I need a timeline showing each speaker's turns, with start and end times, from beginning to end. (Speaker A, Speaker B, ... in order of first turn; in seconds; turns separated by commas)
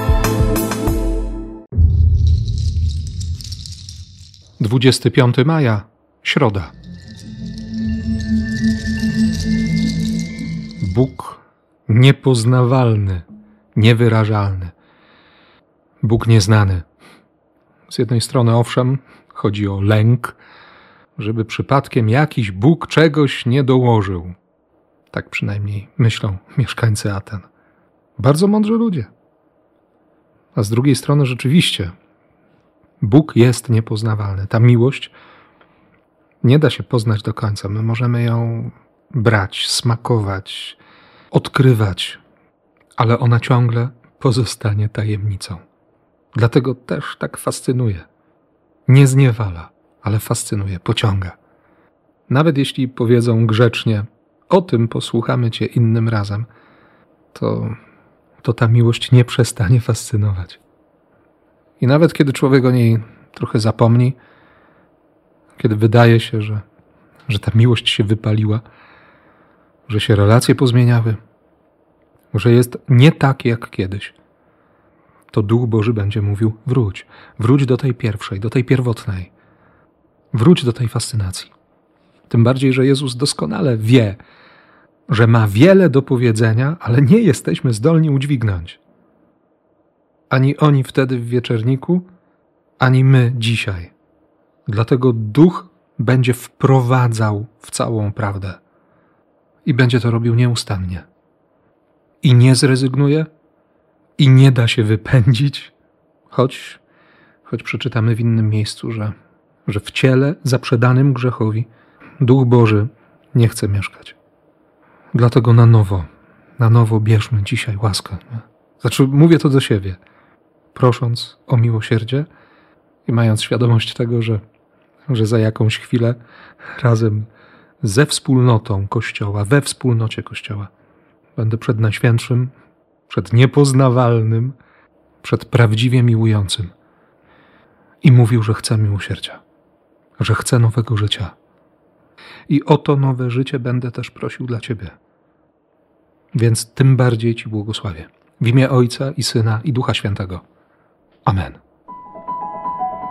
Speaker A: 4.6-6.7, Speaker A: 10.8-14.7, Speaker A: 16.0-16.9, Speaker A: 17.9-20.4, Speaker A: 21.1-24.4, Speaker A: 25.1-27.5, Speaker A: 28.2-29.1, Speaker A: 30.5-31.9, Speaker A: 33.0-35.1, Speaker A: 36.4-40.8, Speaker A: 41.3-42.2, Speaker A: 43.0-45.6, Speaker A: 46.3-48.1, Speaker A: 48.9-51.4, Speaker A: 52.3-56.5, Speaker A: 57.3-57.8, Speaker A: 58.4-60.6, Speaker A: 61.8-64.2, Speaker A: 65.6-66.6, Speaker A: 67.3-68.6, Speaker A: 69.9-71.2, Speaker A: 72.3-74.1, Speaker A: 75.3-79.3, Speaker A: 80.3-81.5, Speaker A: 82.3-84.2, Speaker A: 85.1-88.8, Speaker A: 90.3-92.1, Speaker A: 92.8-93.9, Speaker A: 94.7-98.6, Speaker A: 99.6-101.1, Speaker A: 102.2-103.3, Speaker A: 104.2-105.7, Speaker A: 106.3-106.8, Speaker A: 107.5-109.1, Speaker A: 109.7-114.2, Speaker A: 115.1-120.0, Speaker A: 120.7-122.3, Speaker A: 123.0-124.4, Speaker A: 125.1-126.2, Speaker A: 126.8-127.3, Speaker A: 127.8-130.7, Speaker A: 131.3-132.5, Speaker A: 133.1-134.6, Speaker A: 135.2-136.7, Speaker A: 138.0-139.4, Speaker A: 140.2-141.3, Speaker A: 142.5-144.9, Speaker A: 146.3-150.4, Speaker A: 151.2-151.6